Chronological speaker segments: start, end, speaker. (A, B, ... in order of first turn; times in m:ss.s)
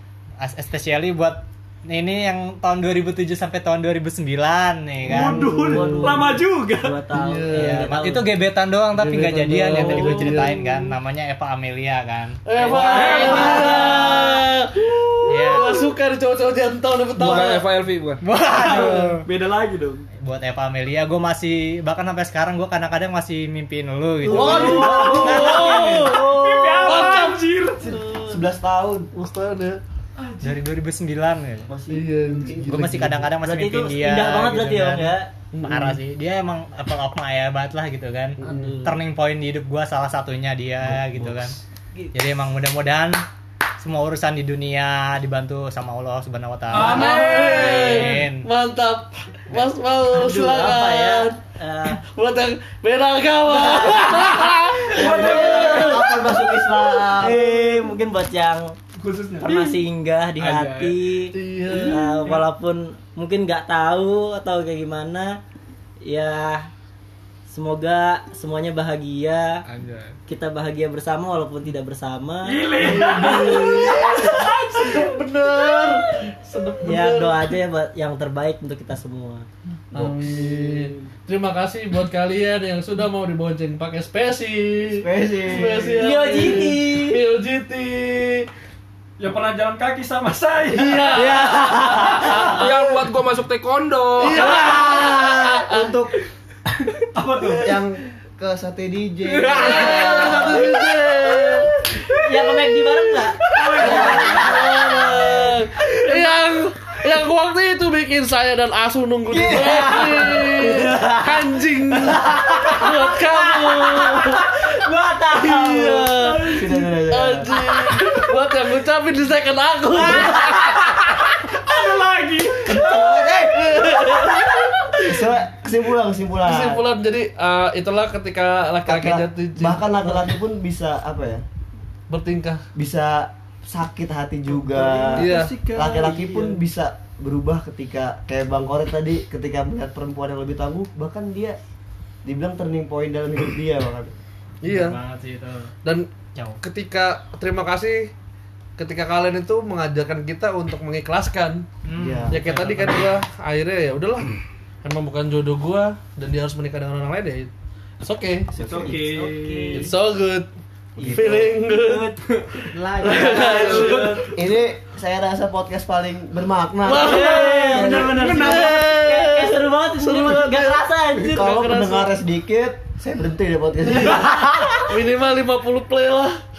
0:00.4-0:05.5 A
0:05.1-0:06.4 B
0:05.1-0:07.0 C
0:05.7-0:08.3 D
0:07.1-0:07.9 B
0:07.5-0:14.3 A
0:08.9-0:10.9 B
0:12.4-0:17.6 B
0:12.6-0:14.4 D
0:12.9-0:13.4 C
0:15.3-0:15.8 A
0:17.2-0:18.2 E
0:18.2-0:19.2 A
0:18.8-0:20.0 C
0:20.2-0:26.2 A
0:24.3-0:26.8 D
0:24.3-0:27.4 B
0:24.5-0:28.0 C
0:27.8-0:28.4 D
0:28.1-0:29.1 F
0:29.1-0:29.8 B
0:30.4-0:31.7 A
0:31.7-0:32.8 F
0:31.9-0:33.3 B
0:32.7-0:41.6 A
0:33.4-0:35.3 D
0:35.5-0:36.0 B
0:38.4-0:38.9 B
0:38.4-0:39.0 D
0:40.9-0:41.6 E
0:42.1-0:43.2 A
0:43.8-0:48.5 A
0:46.7-0:48.1 C
0:46.7-0:51.4 B
0:50.1-0:52.0 D
0:51.9-0:56.0 B
0:53.6-0:54.4 D
0:53.8-0:54.3 C
0:54.9-0:56.1 C
0:54.9-0:56.2 D
0:55.1-0:57.4 F
0:57.2-0:58.7 D
0:57.4-0:57.7 C
0:59.0-0:59.8 C
0:59.4-1:05.4 D
1:00.4-1:01.0 E
1:01.3-1:02.2 B
1:06.1-1:06.7 D
1:07.5-1:09.6 D
1:09.7-1:10.2 E
1:10.3-1:14.4 D
1:12.4-1:15.1 C
1:12.8-1:17.5 B
1:15.7-1:16.1 D
1:16.8-1:19.5 D
1:19.9-1:28.5 B
1:20.0-1:20.9 F
1:24.9-1:26.2 F
1:26.0-1:27.2 D
1:29.2-1:31.9 C
1:30.7-1:33.1 B
1:31.1-1:32.6 D
1:32.3-1:34.8 E
1:34.2-1:35.9 B
1:34.6-1:36.1 F
1:36.9-1:37.8 C
1:37.6-1:40.8 F
1:39.3-1:40.5 C
1:39.5-1:41.7 B
1:39.6-1:40.6 D
1:42.0-1:45.4 D
1:43.5-1:44.8 C
1:43.7-1:54.6 B
1:49.3-1:50.9 F
1:49.4-1:51.5 D
1:52.0-1:56.6 D
1:55.3-2:01.9 B
1:56.5-1:57.5 F
1:57.6-1:58.2 D
2:00.0-2:00.7 D
2:01.7-2:02.8 C
2:02.6-2:05.3 B
2:02.8-2:03.3 D
2:02.8-2:04.4 F
2:05.0-2:06.8 F
2:06.4-2:10.2 B
2:08.8-2:11.4 F
2:12.1-2:12.6 B
2:12.8-2:21.6 F
2:14.5-2:16.6 C
2:15.2-2:15.6 B
2:22.2-2:24.1 F
2:24.6-2:25.0 B
2:24.7-2:25.7 A
2:26.6-2:28.1 B
2:28.8-2:31.7 B
2:31.9-2:33.1 A
2:32.0-2:32.4 F
2:32.3-2:37.5 B
2:38.0-2:38.5 B
2:38.6-2:39.9 C
2:38.6-2:38.9 F
2:38.6-2:39.9 D
2:39.8-2:40.5 B
2:41.0-2:41.6 F
2:41.0-2:44.3 D
2:41.1-2:42.1 B
2:42.3-2:42.7 C
2:43.0-2:43.6 A
2:43.0-2:44.3 B
2:43.7-2:44.3 C
2:44.3-2:48.4 F
2:46.8-2:52.1 B
2:46.9-2:51.6 D
2:47.7-2:48.7 C
2:51.2-2:54.4 F
2:53.9-2:54.9 D
2:54.8-2:56.4 B